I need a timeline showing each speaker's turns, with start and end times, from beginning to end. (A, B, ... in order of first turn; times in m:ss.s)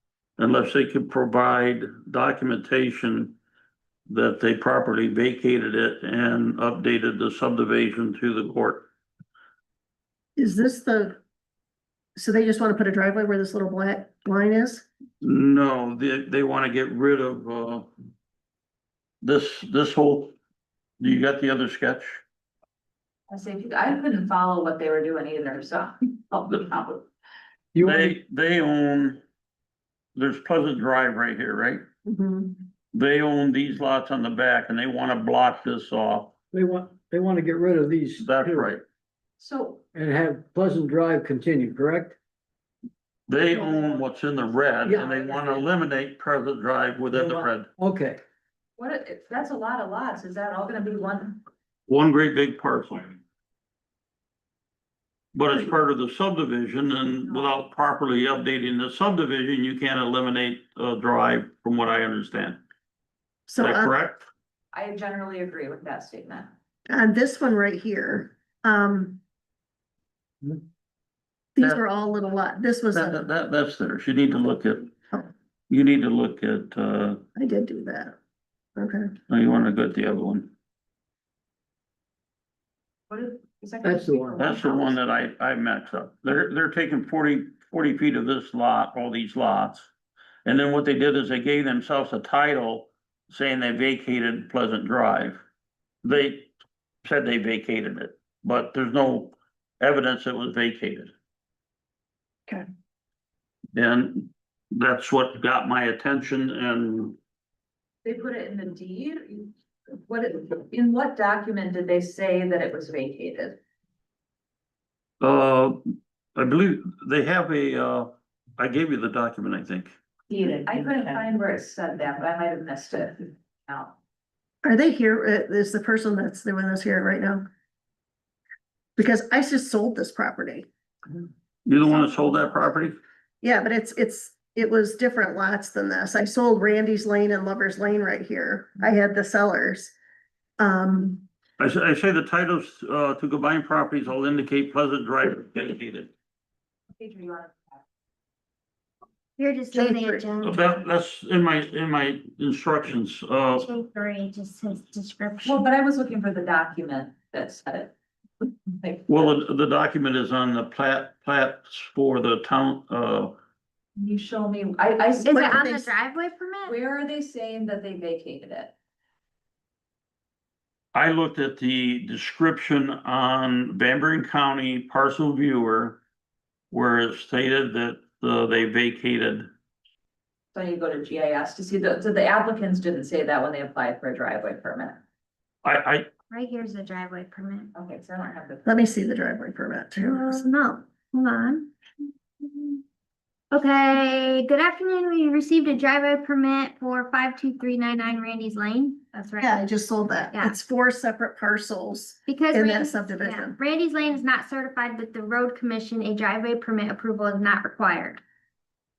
0:00.4-0:03.4 A
0:04.1-0:08.9 A
0:10.4-0:11.2 B
0:12.2-0:14.8 B
0:15.2-0:17.9 A
0:19.2-0:20.3 A
0:21.0-0:22.2 A
0:23.3-0:27.0 C
0:27.7-0:28.2 D
0:27.8-0:29.2 A
0:30.2-0:31.8 A
0:32.0-0:32.6 B
0:32.9-0:36.3 A
0:36.5-0:38.7 D
0:38.2-0:38.8 A
0:39.4-0:39.8 C
0:39.9-0:42.2 D
0:43.3-0:47.7 A
0:44.8-0:45.6 D
0:47.1-0:48.2 D
0:48.8-0:51.4 C
0:51.9-0:53.2 A
0:55.3-1:02.6 A
0:57.2-0:57.6 C
1:03.5-1:03.9 B
1:03.6-1:04.2 A
1:04.7-1:06.5 C
1:06.9-1:09.2 B
1:11.6-1:13.3 B
1:12.9-1:14.9 A
1:15.7-1:17.2 A
1:17.4-1:18.2 B
1:18.8-1:19.2 B
1:19.3-1:20.5 A
1:23.1-1:25.0 C
1:23.8-1:24.5 D
1:24.4-1:29.9 A
1:30.4-1:35.4 A
1:36.0-1:36.5 A
1:37.0-1:41.1 A
1:43.7-1:47.2 A
1:48.0-1:53.6 C
1:55.2-2:00.0 A
2:00.3-2:04.0 C
2:04.6-2:07.4 B
2:09.0-2:10.7 B
2:11.6-2:13.0 A
2:13.4-2:19.9 B
2:20.6-2:21.2 B
2:21.6-2:26.1 A
2:27.0-2:27.8 C
2:29.4-2:30.6 E
2:29.7-2:30.3 B
2:30.4-2:33.7 A
2:33.6-2:35.6 E
2:35.4-2:37.9 C
2:38.8-2:39.4 C
2:39.1-2:43.4 A
2:44.0-2:45.8 C
2:45.2-2:46.8 E
2:45.3-2:45.9 B
2:46.6-2:48.7 C
2:50.9-2:56.0 A
2:56.7-2:59.5 A
3:00.5-3:05.0 C
3:05.6-3:06.1 A
3:06.3-3:07.7 E
3:07.8-3:08.8 C
3:08.6-3:10.5 B
3:10.1-3:11.7 E
3:12.4-3:12.8 E
3:13.5-3:19.6 E
3:19.4-3:23.6 B
3:22.3-3:28.2 E